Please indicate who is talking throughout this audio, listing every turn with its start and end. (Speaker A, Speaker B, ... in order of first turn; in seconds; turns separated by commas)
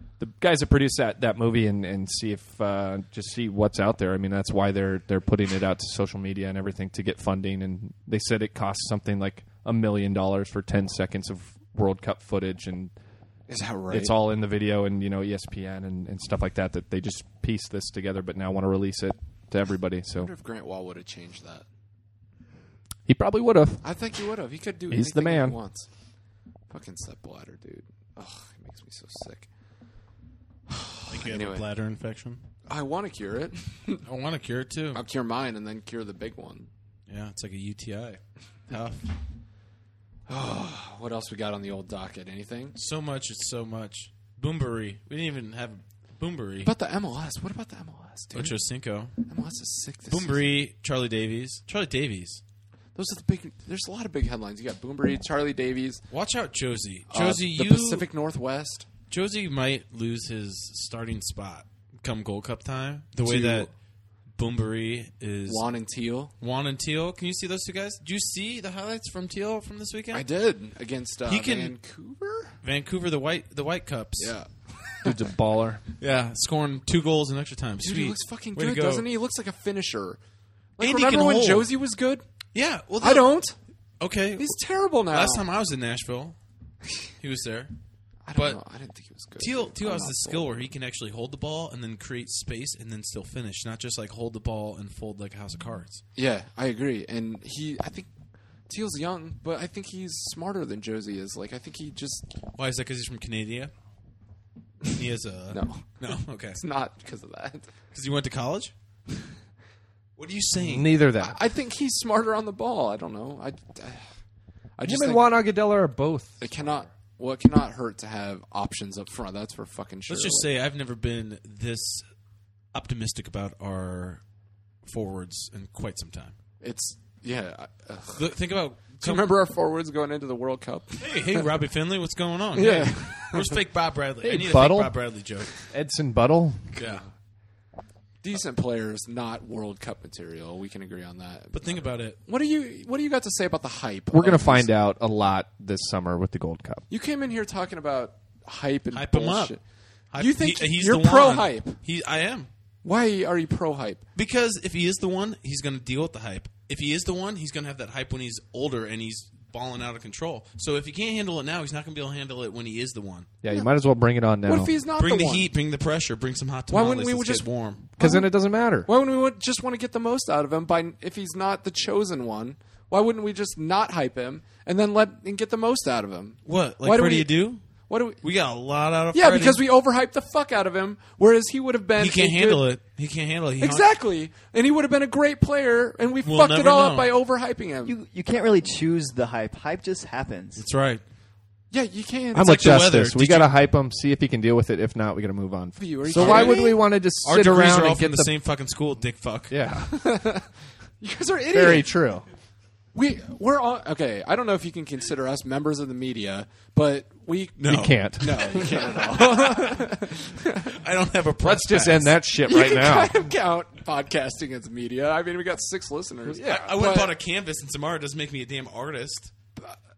Speaker A: 0.2-12.9, Speaker B: 13.5-14.1, Speaker A: 13.9-20.3, Speaker B: 20.2-21.6, Speaker A: 23.1-23.9, Speaker B: 23.8-25.9, Speaker A: 24.9-25.6, Speaker B: 26.7-29.5, Speaker B: 30.7-31.6, Speaker C: 31.1-32.4, Speaker B: 32.7-34.0, Speaker C: 34.0-35.0, Speaker B: 34.9-36.7, Speaker C: 37.1-39.0, Speaker B: 40.3-42.8, Speaker C: 42.8-46.7, Speaker B: 46.6-48.6, Speaker C: 48.3-49.1, Speaker B: 49.2-50.5, Speaker C: 50.1-52.4, Speaker B: 52.9-56.0, Speaker C: 56.1-58.1, Speaker B: 57.1-58.9, Speaker C: 59.1-63.7, Speaker B: 63.2-63.7, Speaker C: 64.3-65.6, Speaker B: 65.5-66.3, Speaker C: 66.4-70.2, Speaker B: 70.1-72.5, Speaker C: 71.2-71.7, Speaker C: 72.6-74.3, Speaker B: 74.2-75.2, Speaker A: 75.0-75.8, Speaker C: 76.0-79.1, Speaker B: 77.8-80.2, Speaker B: 80.8-82.2, Speaker C: 80.8-81.7, Speaker C: 82.5-83.4, Speaker B: 83.0-83.5, Speaker C: 84.0-86.4, Speaker B: 84.4-85.5, Speaker C: 87.2-87.7, Speaker B: 88.2-90.7, Speaker C: 88.3-88.6, Speaker C: 89.4-96.0, Speaker B: 96.1-98.1, Speaker B: 98.7-102.3, Speaker C: 102.5-103.7, Speaker C: 104.9-106.6, Speaker B: 105.5-107.7, Speaker C: 107.9-108.7, Speaker C: 110.2-110.9, Speaker A: 110.6-111.4, Speaker B: 111.2-114.1, Speaker B: 114.8-115.3, Speaker A: 114.8-116.4, Speaker B: 116.4-120.5, Speaker C: 120.1-122.0, Speaker C: 122.7-124.2, Speaker C: 124.8-126.3, Speaker B: 126.6-128.3, Speaker C: 128.1-129.3, Speaker B: 129.0-131.5, Speaker C: 131.0-135.5, Speaker B: 132.5-133.6, Speaker A: 134.2-134.9, Speaker A: 135.7-136.7, Speaker C: 136.7-137.0, Speaker B: 138.2-144.7, Speaker C: 141.5-142.2, Speaker A: 144.1-146.8, Speaker B: 146.9-149.6, Speaker C: 148.9-149.6, Speaker C: 150.1-152.5, Speaker B: 150.2-151.8, Speaker B: 152.8-154.0, Speaker C: 154.1-163.3, Speaker A: 163.4-164.7, Speaker B: 164.4-165.5, Speaker C: 165.0-167.9, Speaker B: 166.7-167.4, Speaker A: 168.0-168.9, Speaker B: 168.0-168.3, Speaker B: 168.8-177.3, Speaker C: 176.4-177.6, Speaker B: 177.9-178.2, Speaker C: 178.2-179.6, Speaker B: 179.1-182.7, Speaker C: 182.0-183.9, Speaker B: 183.6-187.9, Speaker C: 186.2-187.1, Speaker D: 187.8-190.7, Speaker C: 190.6-191.0, Speaker B: 191.7-192.6, Speaker A: 192.3-198.3, Speaker C: 192.3-193.5, Speaker B: 195.8-196.8, Speaker C: 196.1-199.6, Speaker A: 199.5-200.1, Speaker B: 199.9-200.5, Speaker B: 201.0-201.9, Speaker A: 201.5-202.3, Speaker B: 202.9-210.8, Speaker C: 207.6-209.4, Speaker A: 207.7-208.9, Speaker C: 210.6-212.2, Speaker A: 211.4-213.3, Speaker B: 212.4-217.1, Speaker A: 216.3-216.7, Speaker C: 216.4-219.3